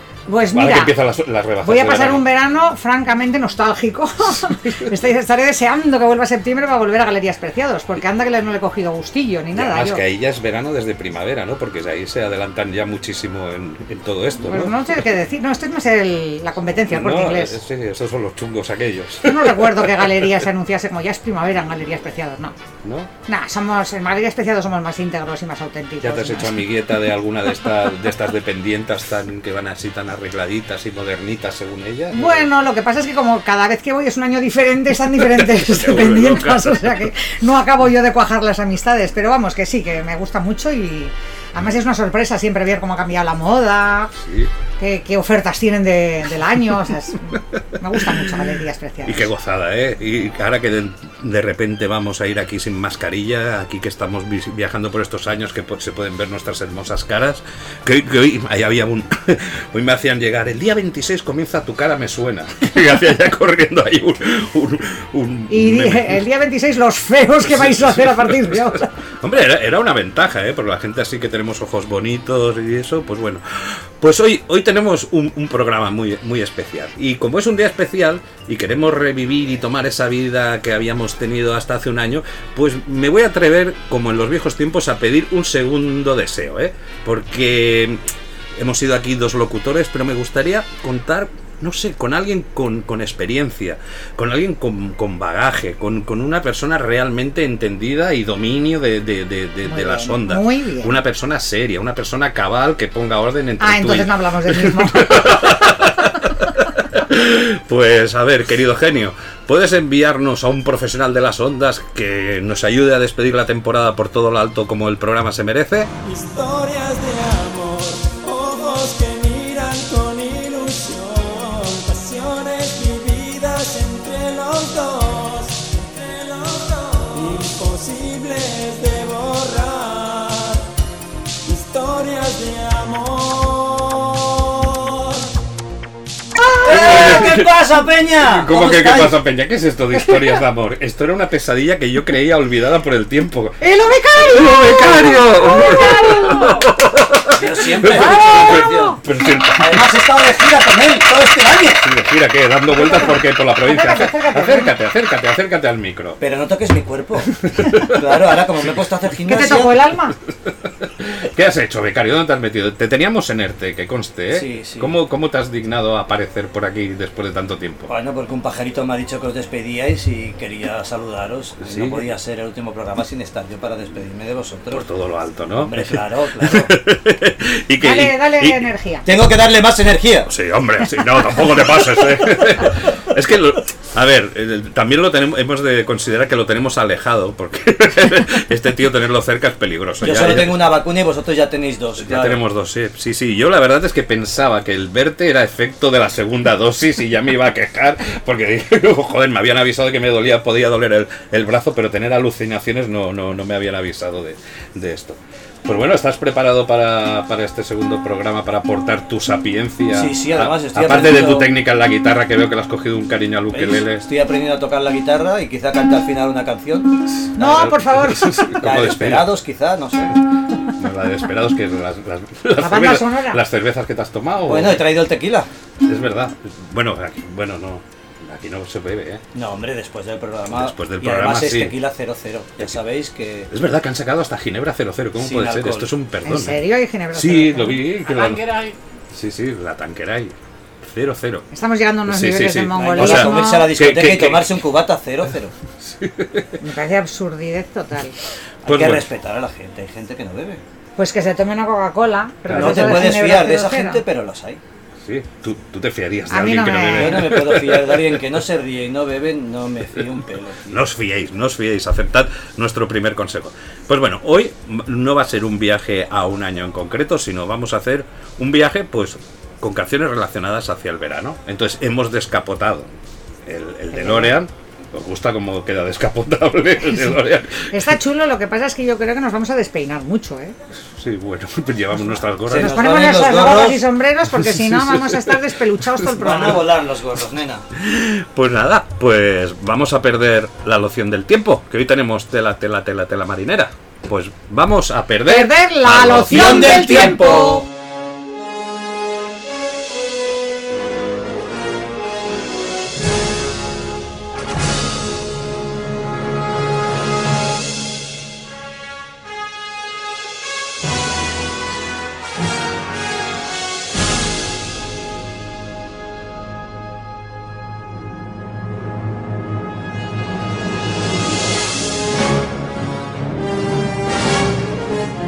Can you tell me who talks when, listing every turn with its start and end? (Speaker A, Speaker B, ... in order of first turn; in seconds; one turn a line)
Speaker A: 0.3-0.9
Speaker B: 0.5-2.2
Speaker A: 1.6-10.0
Speaker B: 9.5-14.8
Speaker A: 14.4-17.6
Speaker B: 16.9-20.4
Speaker A: 19.2-22.5
Speaker B: 22.8-23.1
Speaker A: 23.3-26.6
Speaker B: 26.0-32.5
Speaker A: 32.1-44.1
Speaker B: 35.1-37.1
Speaker B: 44.2-44.5
Speaker A: 44.8-49.3
Speaker B: 49.0-66.2
Speaker A: 65.5-68.9
Speaker B: 67.4-88.0
Speaker B: 88.5-115.9
Speaker A: 99.7-101.0
Speaker A: 103.6-105.8
Speaker C: 116.0-130.7
Speaker C: 131.4-135.3
Speaker D: 136.6-139.2
Speaker B: 136.6-137.7
Speaker B: 138.2-143.6
Speaker A: 143.6-146.6
Speaker B: 144.2-149.9
Speaker D: 147.3-149.0
Speaker A: 147.9-149.4
Speaker D: 149.6-151.8
Speaker B: 151.8-156.2
Speaker A: 152.7-154.7
Speaker D: 156.2-159.9
Speaker B: 157.5-158.0
Speaker A: 159.2-160.2
Speaker B: 161.0-167.9
Speaker D: 164.3-164.9
Speaker D: 167.9-174.8
Speaker B: 171.6-172.1
Speaker B: 174.7-178.6
Speaker D: 175.6-176.7
Speaker A: 177.8-179.1
Speaker D: 179.1-180.3
Speaker B: 180.3-190.7
Speaker D: 190.0-192.4
Speaker B: 192.0-214.1
Speaker D: 209.9-211.5
Speaker D: 213.5-217.7
Speaker A: 217.4-218.5
Speaker B: 217.9-219.3
Speaker D: 218.6-220.2
Speaker B: 220.8-224.8
Speaker A: 222.6-223.4
Speaker D: 224.5-225.5
Speaker B: 225.8-229.2
Speaker D: 229.3-233.5
Speaker B: 230.5-231.8
Speaker B: 233.5-236.6
Speaker D: 235.2-235.9
Speaker A: 236.2-237.8
Speaker B: 237.1-241.4
Speaker A: 241.5-243.7
Speaker B: 242.1-244.6
Speaker D: 242.8-245.5
Speaker B: 245.8-246.5
Speaker A: 246.6-248.1
Speaker B: 248.6-249.1
Speaker D: 248.7-250.6
Speaker A: 251.0-254.0
Speaker B: 252.4-253.1
Speaker D: 252.5-254.6
Speaker B: 255.0-258.2
Speaker A: 256.3-257.2
Speaker D: 256.9-260.8
Speaker B: 260.7-272.9
Speaker B: 273.4-277.8
Speaker A: 273.9-274.3
Speaker A: 277.7-280.6
Speaker B: 280.9-282.8
Speaker D: 282.5-283.8
Speaker A: 282.7-286.6
Speaker B: 284.5-285.2
Speaker D: 286.1-287.6
Speaker B: 287.7-297.1
Speaker A: 295.2-297.6
Speaker D: 296.2-297.6